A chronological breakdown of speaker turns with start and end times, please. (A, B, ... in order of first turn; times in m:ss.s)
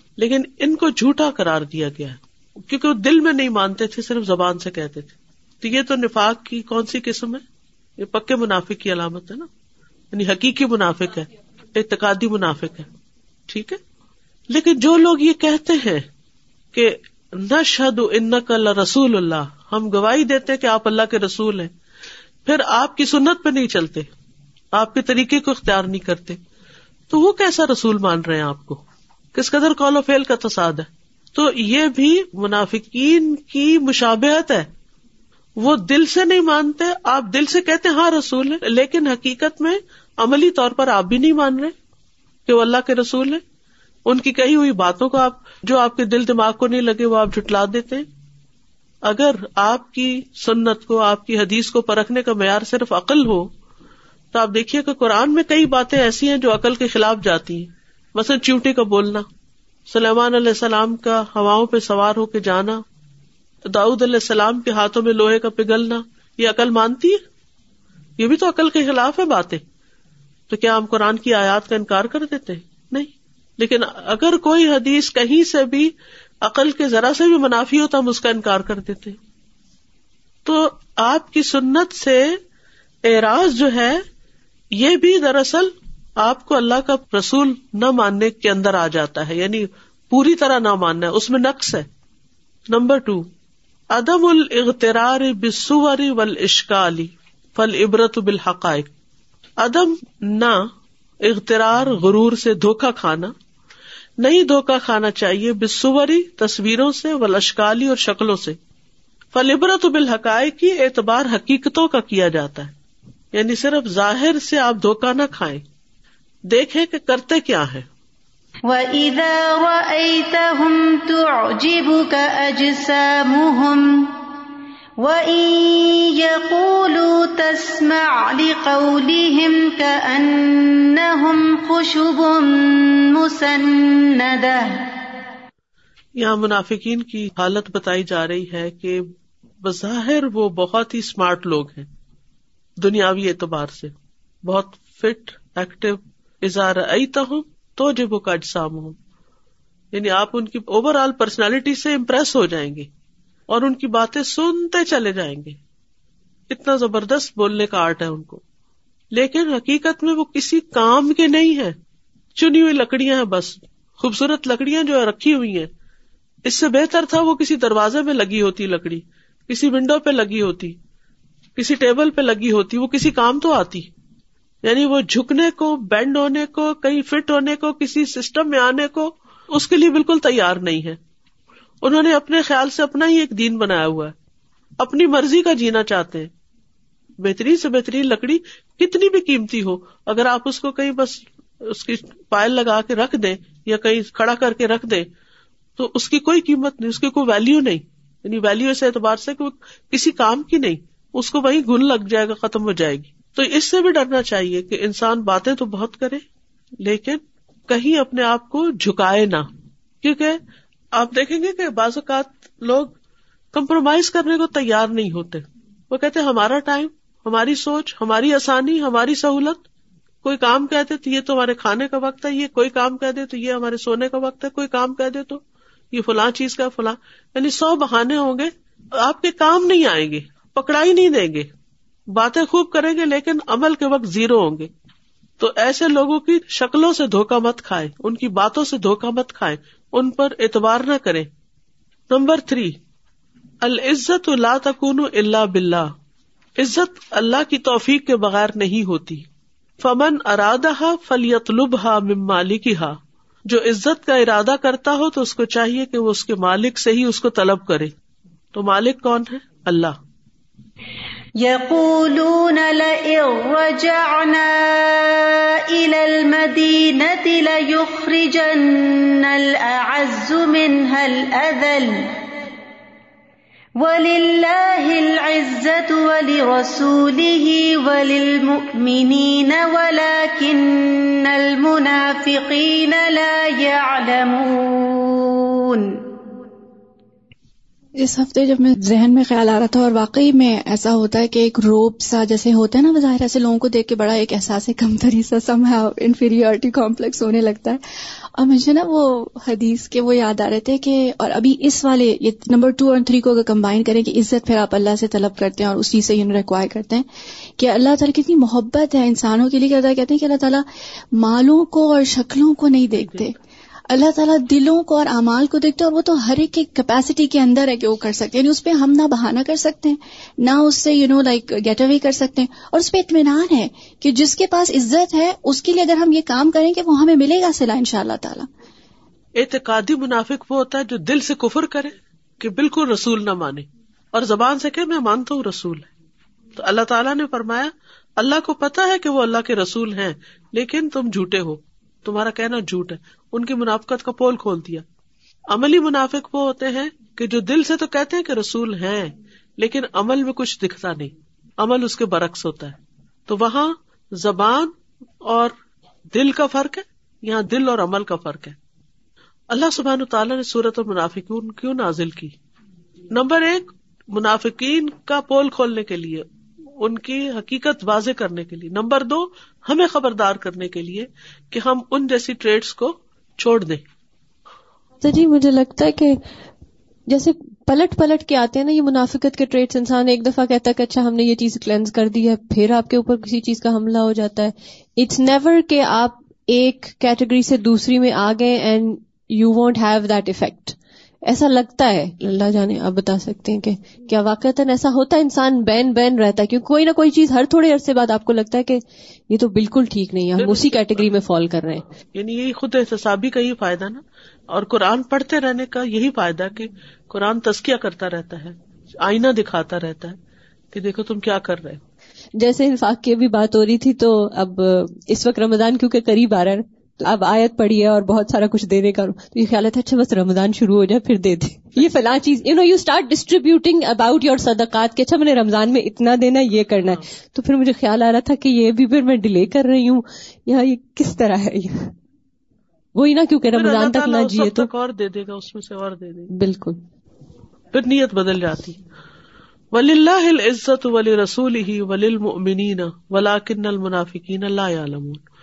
0:00.2-0:07.4 A
0:08.0-0:09.5 A
0:10.1-0:12.9 A
0:13.5-0:13.8 A
0:14.5-0:16.1 A
0:16.7-0:21.7 A
0:22.4-0:24.1 A
0:24.7-0:26.4 A
0:27.1-0:28.8 A
0:29.4-0:34.7 A
0:35.6-0:41.7 A
0:42.5-0:43.4 A
0:44.1-0:48.1 A
0:49.0-0:53.5 A
0:54.3-0:59.3 A
0:59.9-1:02.8 A
1:03.7-1:07.2 A
1:08.2-1:09.6 A
1:10.5-1:15.9 A
1:16.4-1:19.2 A
1:20.4-1:22.4 A
1:23.0-1:24.0 A
1:24.7-1:31.9 A
1:32.7-1:33.3 A
1:33.9-1:38.9 A
1:39.6-1:40.7 A
1:41.2-1:43.3 A
1:44.2-1:48.6 A
1:49.3-1:52.7 A
1:53.3-1:55.6 A
1:56.5-1:57.9 A
1:58.7-2:04.2 B
2:05.0-2:14.9 B
2:16.2-2:19.1 A
2:19.6-2:21.9 A
2:22.8-2:23.9 A
2:24.5-2:29.0 A
2:29.9-2:32.9 A
2:33.5-2:35.6 A
2:36.5-2:38.4 A
2:39.1-2:41.8 A
2:42.4-2:45.7 A
2:46.5-2:50.8 A
2:51.6-2:53.9 A
2:54.6-3:01.0 A
3:01.8-3:04.2 A
3:04.8-3:06.3 A
3:07.2-3:15.1 A
3:15.8-3:26.2 A
3:26.8-3:29.5 A
3:30.0-3:30.4 A
3:31.0-3:33.0 A
3:33.5-3:39.6 A
3:40.2-3:51.5 A
3:52.1-3:54.7 A
3:55.4-4:01.3 A
4:02.1-4:02.8 A
4:03.6-4:05.9 A
4:06.6-4:09.3 A
4:09.8-4:17.9 A
4:18.5-4:20.0 A
4:21.4-4:32.2 B
4:33.8-4:46.0 B
4:48.0-4:57.8 C
4:58.4-5:07.1 C
5:07.6-5:13.4 C
5:13.0-5:13.2 A
5:13.9-5:28.5 C
5:29.4-5:35.9 A
5:36.6-5:44.8 A
5:45.5-5:55.6 A
5:56.1-5:58.6 A
5:59.5-6:02.4 A
6:03.1-6:06.2 A
6:06.8-6:13.8 A
6:15.0-6:16.2 D
6:17.1-6:41.8 D
6:40.4-6:41.0 A
6:42.2-6:50.2 A
6:50.7-6:51.8 A
6:52.4-7:11.9 D
7:01.8-7:02.1 A
7:13.0-7:14.7 D
7:13.5-7:16.3 A
7:16.3-7:16.8 D
7:17.7-7:18.8 A
7:19.7-7:25.2 A